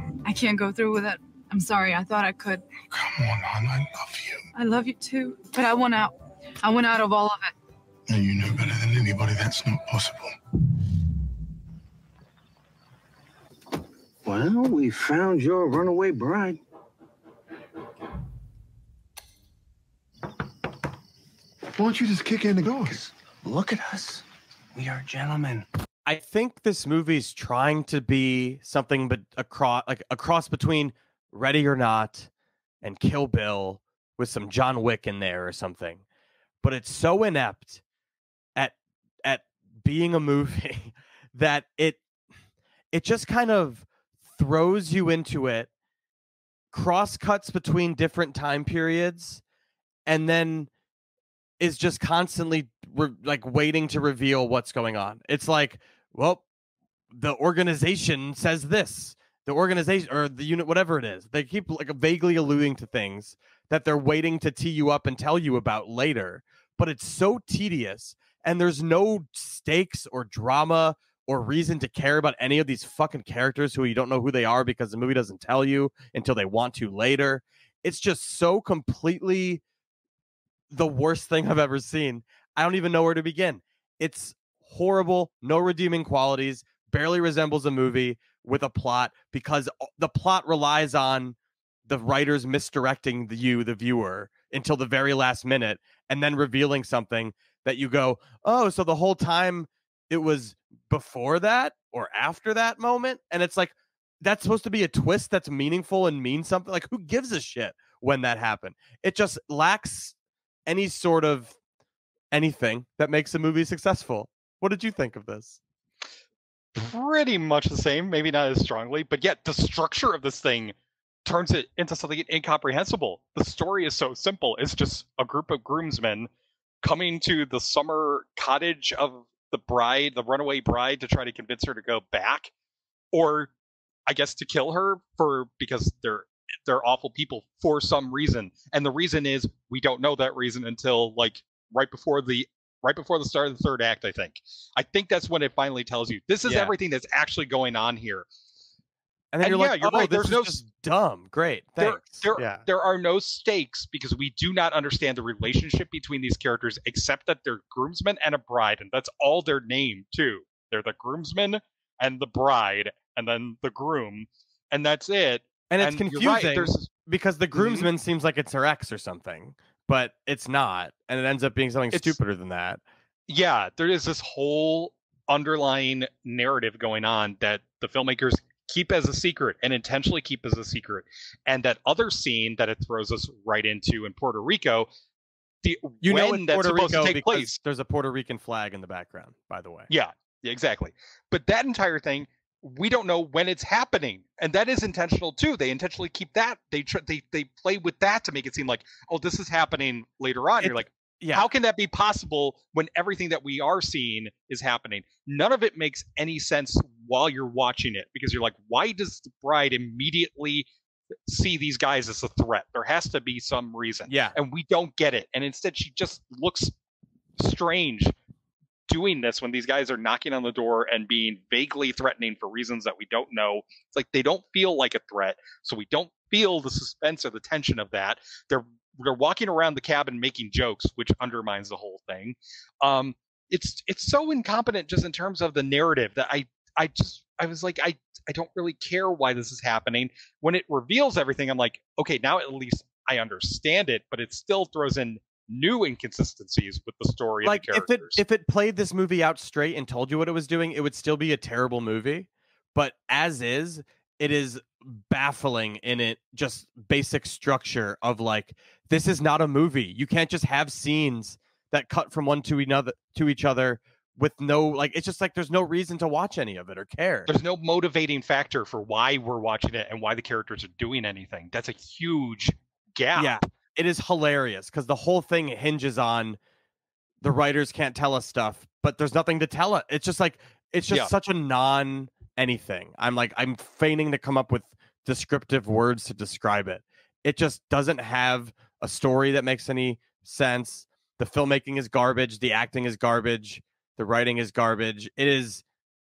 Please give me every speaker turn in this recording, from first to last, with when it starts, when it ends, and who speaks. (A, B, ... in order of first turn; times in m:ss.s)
0:00.2-0:02.6 A
0:02.9-0:04.4 B
0:04.5-0:07.5 A
0:08.1-0:10.4 B
0:14.2-0:16.6 C
0:21.7-0:23.0 B
0:22.8-0:24.2 C
0:24.8-0:25.6 C
0:26.0-0:32.3 D
0:32.8-0:36.0 D
0:36.6-0:37.8 D
0:38.6-0:42.0 D
0:42.9-0:45.7 D
0:46.7-0:49.4 D
0:50.0-0:50.7 D
0:51.6-0:56.4 D
0:57.1-1:19.6 D
1:20.7-1:31.4 D
1:31.9-1:50.1 D
1:50.6-1:51.5 D
1:52.3-1:55.6 D
1:56.8-2:00.7 E
2:01.2-2:06.3 E
2:06.8-2:12.5 E
2:13.1-2:13.5 E
2:14.1-2:28.3 E
2:26.4-2:26.7 D
2:29.3-2:32.6 D
2:29.4-2:30.6 E
2:31.8-2:46.9 E
2:45.7-2:52.8 D
2:47.5-2:47.9 E
2:51.9-2:52.2 E
2:53.3-3:04.9 E
3:05.6-3:07.6 E
3:06.0-3:09.9 D
3:09.9-3:30.7 E
3:20.6-3:21.4 D
3:31.3-3:36.7 E
3:34.1-3:34.3 D
3:37.4-3:38.1 E
3:38.9-4:08.2 E
4:07.4-4:27.3 D
4:27.2-4:33.4 E
4:33.1-4:36.4 D
4:37.2-4:55.6 D